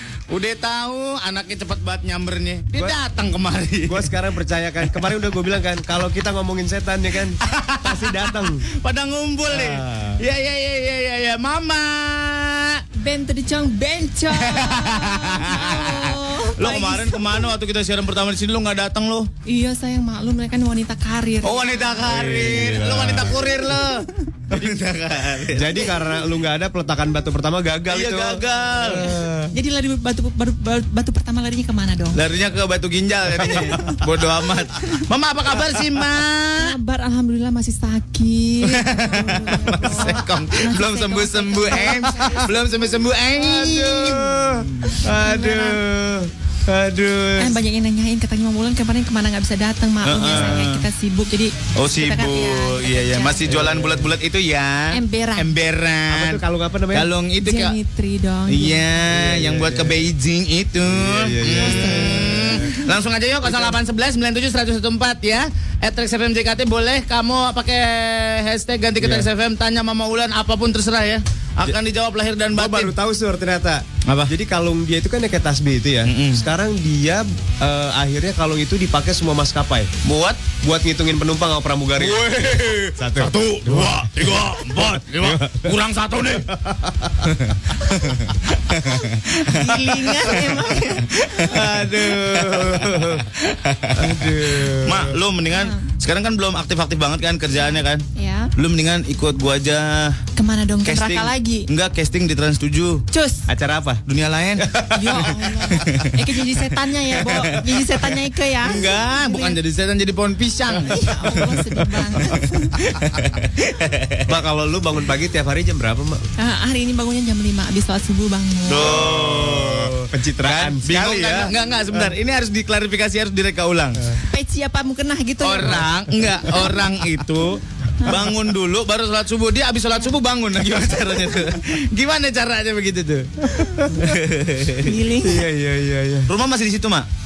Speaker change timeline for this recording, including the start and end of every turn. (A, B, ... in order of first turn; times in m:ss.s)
0:00.3-0:04.2 A
0:03.8-0:08.7 B
0:07.4-0:12.8 A
0:09.5-0:10.2 B
0:13.0-0:17.6 C
0:14.3-0:19.3 A
0:19.4-0:22.1 C
0:21.4-0:25.9 A
0:22.0-0:23.5 B
0:25.5-0:29.6 B
0:27.9-0:29.1 A
0:29.0-0:32.2 C
0:32.1-0:36.8 A
0:36.6-0:42.5 C
0:38.6-0:45.0 A
0:43.3-0:47.6 B
0:45.1-0:45.8 C
0:47.4-0:53.6 C
0:50.0-0:50.8 A
0:51.7-0:57.8 A
0:53.4-0:54.1 B
0:54.9-0:55.5 C
0:56.1-0:57.1 B
0:57.4-0:59.0 C
0:58.5-1:12.9 A
0:59.1-1:00.1 B
1:00.8-1:02.8 B
1:01.4-1:02.8 C
1:03.4-1:03.8 B
1:09.0-1:09.3 B
1:12.5-1:19.9 B
1:14.0-1:14.3 A
1:16.0-1:16.4 A
1:20.0-1:20.4 A
1:20.6-1:22.3 B
1:22.0-1:26.5 A
1:22.9-1:25.7 B
1:26.5-1:27.3 B
1:27.3-1:30.5 A
1:29.5-1:31.4 C
1:31.2-1:40.2 A
1:31.4-1:33.2 B
1:34.0-1:35.2 B
1:35.5-1:35.9 C
1:37.5-1:38.5 C
1:40.4-1:41.7 C
1:40.8-1:43.0 A
1:43.1-1:43.5 C
1:43.5-1:44.0 B
1:44.0-1:44.7 A
1:44.6-1:45.4 B
1:44.9-1:49.6 C
1:45.7-1:46.1 A
1:47.1-1:47.7 A
1:48.6-1:54.3 A
1:50.7-1:52.8 C
1:54.2-1:56.3 B
1:56.4-1:59.0 C
1:58.7-2:04.2 A
1:58.7-2:02.1 B
2:04.3-2:06.7 C
2:05.4-2:14.9 A
2:08.0-2:08.4 C
2:13.5-2:13.9 B
2:14.8-2:15.5 C
2:15.2-2:16.3 B
2:16.3-2:17.1 A